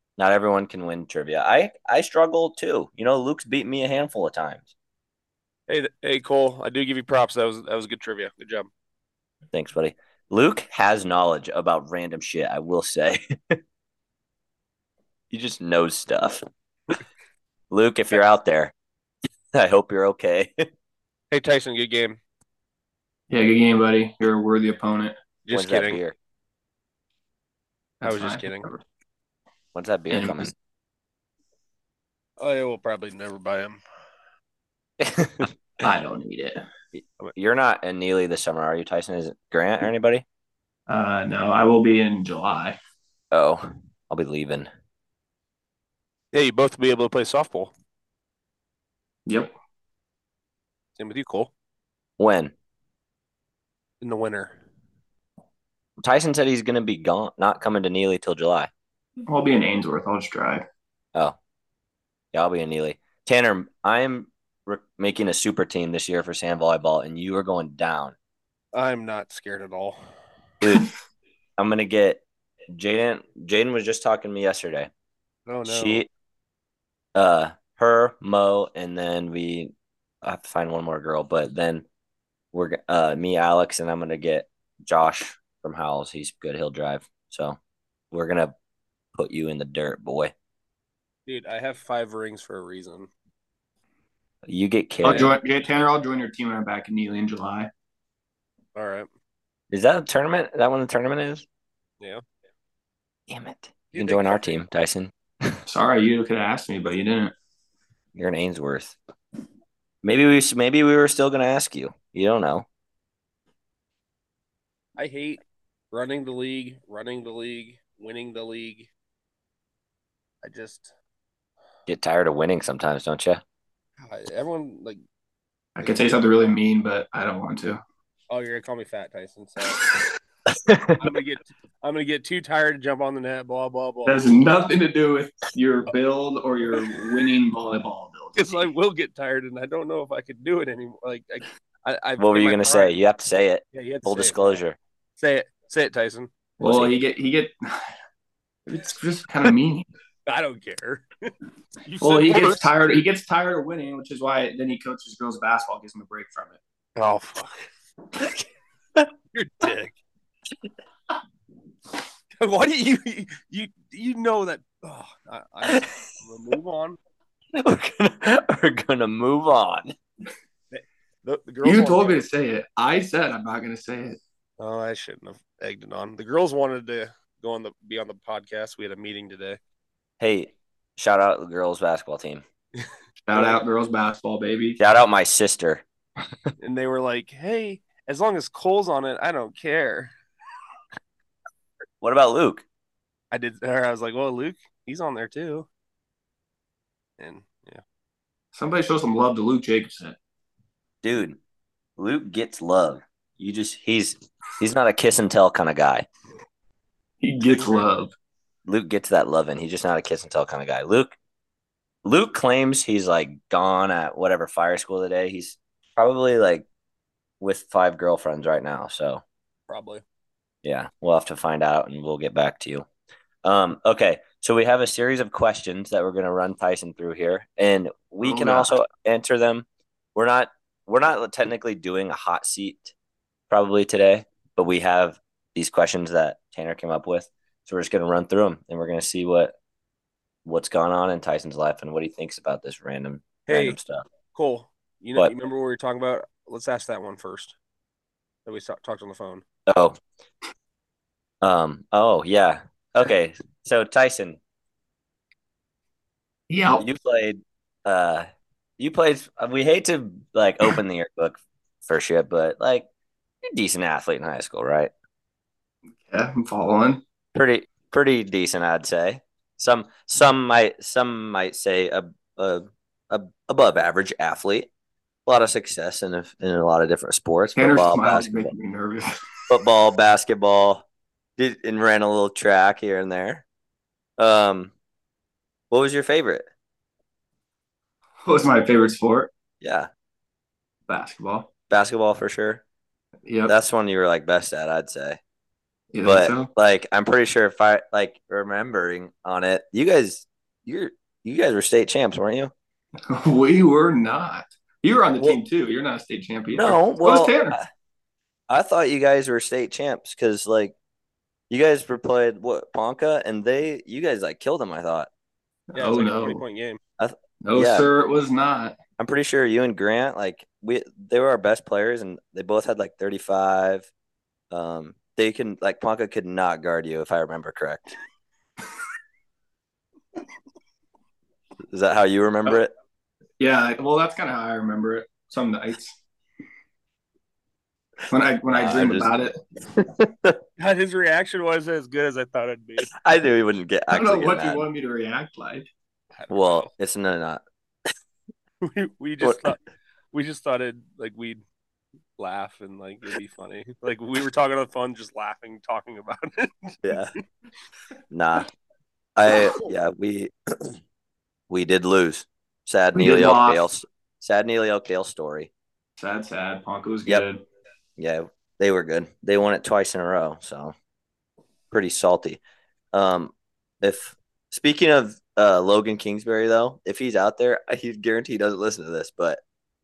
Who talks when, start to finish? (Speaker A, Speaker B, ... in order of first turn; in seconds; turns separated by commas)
Speaker A: 0.2-4.7, Speaker B: 5.7-8.7, Speaker A: 9.5-13.6, Speaker A: 15.3-16.4, Speaker A: 17.7-18.7, Speaker A: 19.5-20.6, Speaker B: 21.3-22.2, Speaker C: 23.3-25.1, Speaker B: 25.4-26.0, Speaker A: 25.5-26.1, Speaker C: 28.0-28.8, Speaker B: 28.0-28.7, Speaker A: 29.7-30.5, Speaker C: 30.1-30.5, Speaker B: 32.4-33.8, Speaker A: 35.0-35.5, Speaker C: 35.8-36.6, Speaker A: 36.9-40.2, Speaker C: 40.9-42.8, Speaker A: 43.3-44.7, Speaker B: 46.3-47.7, Speaker C: 49.3-49.5, Speaker B: 51.0-51.5, Speaker A: 52.2-52.5, Speaker B: 54.0-54.5, Speaker A: 56.0-58.7, Speaker C: 59.3-60.6, Speaker A: 62.3-68.1, Speaker B: 68.7-70.0, Speaker A: 70.6-70.9, Speaker A: 71.6-74.9, Speaker B: 75.5-76.0, Speaker A: 75.7-76.1, Speaker A: 77.1-81.8, Speaker A: 82.5-87.6, Speaker A: 88.1-88.5, Speaker A: 89.1-90.3, Speaker B: 91.3-93.1, Speaker A: 94.5-95.3, Speaker C: 95.0-97.7, Speaker B: 98.7-99.1, Speaker A: 99.7-101.5, Speaker A: 103.3-105.6, Speaker B: 103.9-104.6, Speaker C: 105.7-107.3, Speaker A: 108.1-109.0, Speaker A: 110.0-112.7, Speaker B: 115.0-118.9, Speaker B: 120.4-120.9, Speaker A: 121.9-123.4, Speaker B: 124.0-125.0, Speaker C: 125.8-127.8, Speaker B: 125.8-126.2, Speaker B: 128.3-129.8, Speaker A: 130.5-131.0, Speaker B: 131.0-134.2, Speaker C: 134.0-138.6, Speaker B: 138.3-142.9, Speaker A: 142.2-144.8, Speaker B: 143.7-144.6, Speaker B: 145.2-146.3, Speaker C: 146.6-147.9, Speaker A: 146.6-147.0, Speaker C: 148.7-149.9, Speaker B: 150.2-151.3, Speaker B: 151.8-152.8, Speaker C: 152.0-156.6, Speaker B: 157.0-157.7, Speaker B: 159.3-160.0, Speaker B: 162.4-167.0, Speaker A: 167.5-169.9, Speaker B: 170.7-172.2, Speaker C: 171.6-174.2, Speaker B: 174.6-179.6, Speaker A: 180.2-182.4, Speaker C: 183.3-184.8, Speaker B: 183.3-183.6, Speaker A: 184.8-185.8, Speaker B: 186.6-190.1, Speaker A: 192.0-192.6, Speaker B: 193.3-195.7, Speaker B: 197.2-197.8, Speaker C: 198.5-200.2, Speaker A: 201.0-201.4, Speaker A: 202.0-206.1, Speaker C: 207.2-208.1, Speaker A: 208.6-211.2, Speaker A: 212.0-216.7, Speaker A: 217.4-219.2, Speaker B: 219.7-220.0, Speaker A: 220.6-222.8, Speaker A: 223.4-232.9, Speaker C: 228.2-228.7, Speaker A: 233.5-239.5, Speaker A: 240.4-244.0, Speaker B: 243.5-243.8, Speaker B: 244.3-247.5, Speaker B: 248.4-249.4, Speaker A: 249.7-250.0, Speaker A: 251.4-254.4, Speaker C: 256.5-256.8, Speaker A: 256.8-258.3, Speaker A: 258.8-262.9, Speaker A: 263.5-264.9, Speaker C: 266.0-267.0, Speaker A: 267.3-274.7, Speaker A: 275.2-278.5, Speaker C: 277.6-279.1, Speaker A: 279.5-280.8, Speaker A: 281.4-283.4, Speaker A: 284.2-284.7, Speaker A: 285.7-286.5, Speaker C: 288.2-289.3, Speaker A: 289.6-289.9, Speaker C: 290.9-291.5, Speaker A: 291.7-292.6, Speaker C: 293.2-293.5, Speaker A: 293.4-295.2, Speaker C: 295.9-296.5, Speaker A: 296.0-302.5, Speaker C: 303.1-307.6, Speaker A: 306.5-307.7, Speaker A: 308.5-310.7, Speaker A: 311.5-315.1, Speaker C: 315.7-316.4, Speaker B: 315.7-316.8, Speaker A: 317.0-317.9, Speaker C: 317.4-318.8, Speaker A: 319.0-323.9, Speaker A: 324.5-327.9, Speaker A: 331.7-332.7, Speaker C: 333.4-335.9, Speaker C: 338.1-339.4, Speaker A: 338.5-339.1, Speaker A: 339.7-340.4, Speaker B: 340.6-342.9, Speaker A: 342.9-344.7, Speaker C: 343.9-345.7, Speaker B: 346.2-346.7, Speaker A: 346.3-347.4, Speaker B: 348.6-349.6, Speaker A: 349.2-349.5, Speaker B: 350.1-351.4, Speaker B: 352.2-356.9, Speaker A: 356.8-357.1, Speaker A: 358.1-358.5, Speaker A: 359.1-360.8, Speaker A: 361.5-365.5, Speaker C: 362.9-363.7, Speaker C: 366.0-367.4, Speaker A: 368.0-370.7, Speaker A: 371.7-372.4, Speaker A: 372.9-379.4